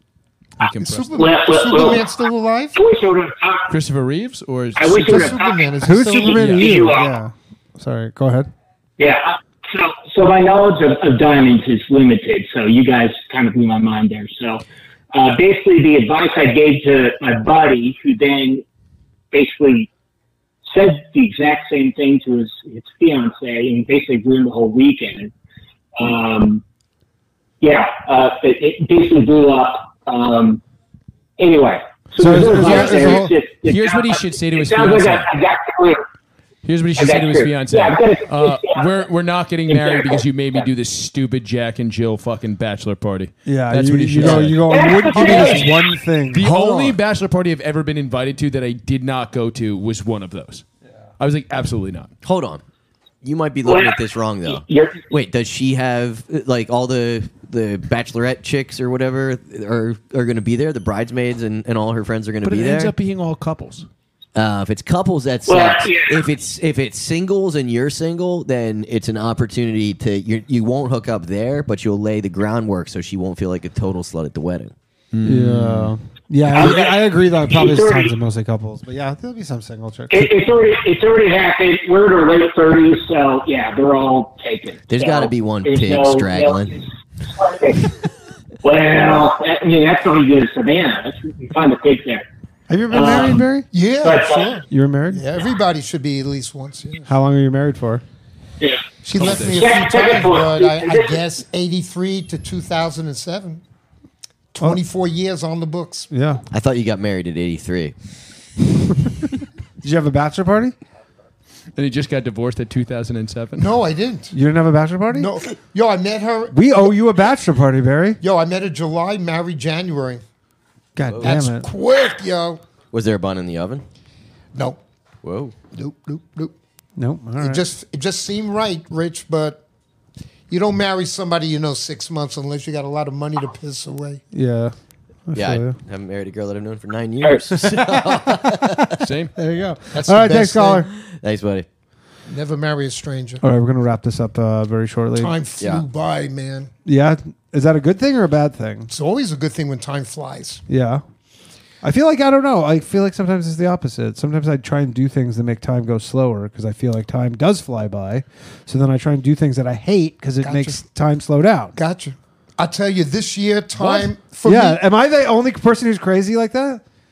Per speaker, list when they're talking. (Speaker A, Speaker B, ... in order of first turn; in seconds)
Speaker A: 0.6-1.2, 3.7-5.3, 6.4-6.7, 32.2-35.3, 36.6-45.5, 46.3-50.6, 51.2-52.1, 62.4-63.9, 75.1-75.9, 99.2-99.6, 111.8-113.7, 139.0-139.3
Speaker B: 0.6-2.8, 4.8-6.3, 93.7-97.1, 99.0-103.6, 104.5-106.1, 113.6-114.3, 115.1-116.9, 118.2-120.2, 121.2-122.6, 124.5-124.8, 125.7-126.5, 127.4-129.6, 130.5-134.2, 139.9-140.9, 142.3-143.4, 145.2-146.7, 148.9-150.6, 160.4-160.8, 161.8-164.8
Speaker C: 1.1-2.1, 2.7-3.7, 4.8-7.1, 9.0-18.6, 19.3-19.9, 20.7-25.3, 26.0-26.6, 27.6-30.6, 31.4-36.0, 37.0-39.1, 39.7-40.7, 44.2-46.0, 53.6-55.0, 65.5-66.2, 76.4-78.1, 80.1-87.9, 88.6-92.2, 92.9-93.5, 94.0-94.6, 98.6-101.2
Speaker D: 5.8-8.5, 32.2-33.3, 43.5-47.0, 75.2-80.3, 92.7-93.7, 94.7-95.2, 97.1-98.0, 106.1-106.4, 109.8-110.7, 114.3-115.3, 116.5-118.2, 121.0-121.7, 127.0-127.6, 134.3-134.7, 135.3-135.8, 137.6-138.8, 139.3-140.9, 143.4-145.3, 146.8-148.9, 150.7-151.0, 151.8-161.8, 163.8-166.8
Speaker E: 52.2-52.6, 53.2-62.9, 64.3-74.7, 84.9-86.8, 106.5-107.9, 121.0-121.4, 122.9-123.8, 125.2-125.5, 135.3-138.9, 141.0-141.7, 145.6-145.8